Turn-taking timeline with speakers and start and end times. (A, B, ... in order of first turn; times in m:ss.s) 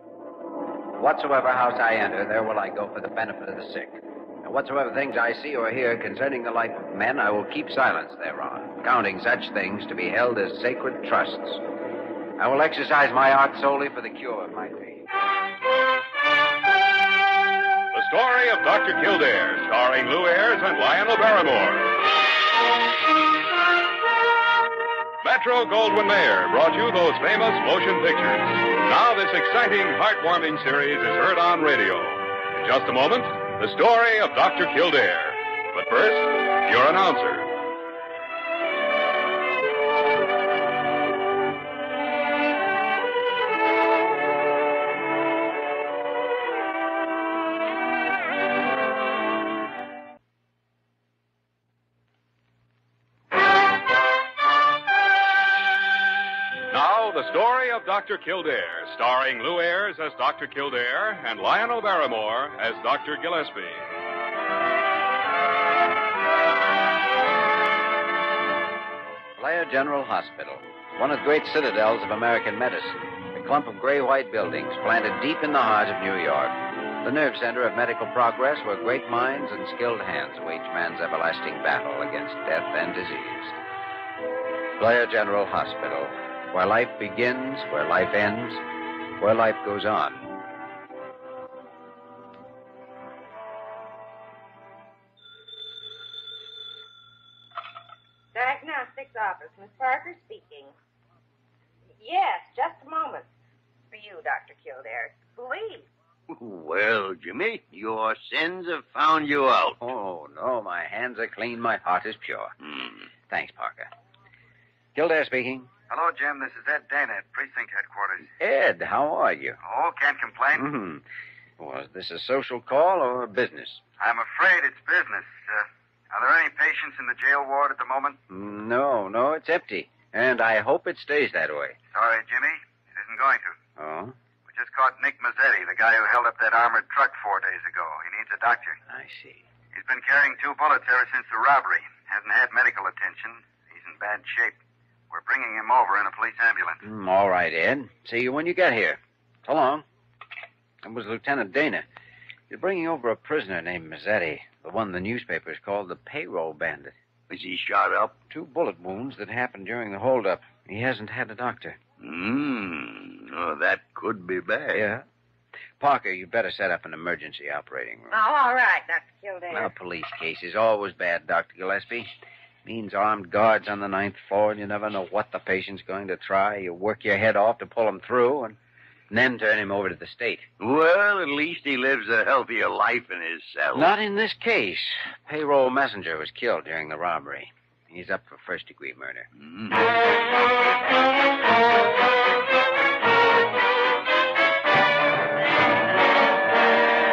0:01.0-0:11.6 A
0:12.4-0:15.0 A
0:17.9-0:21.9 B
0:25.2-0:37.5 B
0:56.7-1:03.8 B
1:09.4-1:23.6 A
1:24.8-1:28.6 A
1:29.2-1:30.3 A
1:38.3-1:40.7 C
1:42.0-1:43.3 C
1:43.9-1:45.9 C
1:46.3-1:49.8 D
1:49.8-1:52.5 A
1:52.6-1:53.0 D
1:53.3-1:53.9 A
1:54.9-1:55.7 A
1:55.9-1:58.3 E
1:58.4-1:59.6 A
1:59.6-2:00.7 E
2:00.5-2:01.0 A
2:01.6-2:03.8 A
2:04.0-2:08.2 E
2:08.3-2:11.8 A
2:11.9-2:13.6 E
2:13.8-2:14.1 A
2:14.5-2:18.8 E
2:18.9-2:19.4 A
2:19.7-2:24.6 E
2:25.1-2:26.8 E
2:26.8-2:29.8 A
2:30.8-2:31.8 A
2:32.5-2:36.9 A
2:37.3-2:38.1 D
2:38.3-2:41.8 A
2:42.0-2:44.8 D
2:44.7-2:45.0 A
2:45.8-2:48.2 A
2:48.1-2:49.7 C
2:49.5-2:52.1 A
2:52.6-2:58.6 A
2:59.1-3:00.5 A
3:00.6-3:03.9 D
3:03.7-3:09.3 A
3:09.4-3:09.8 D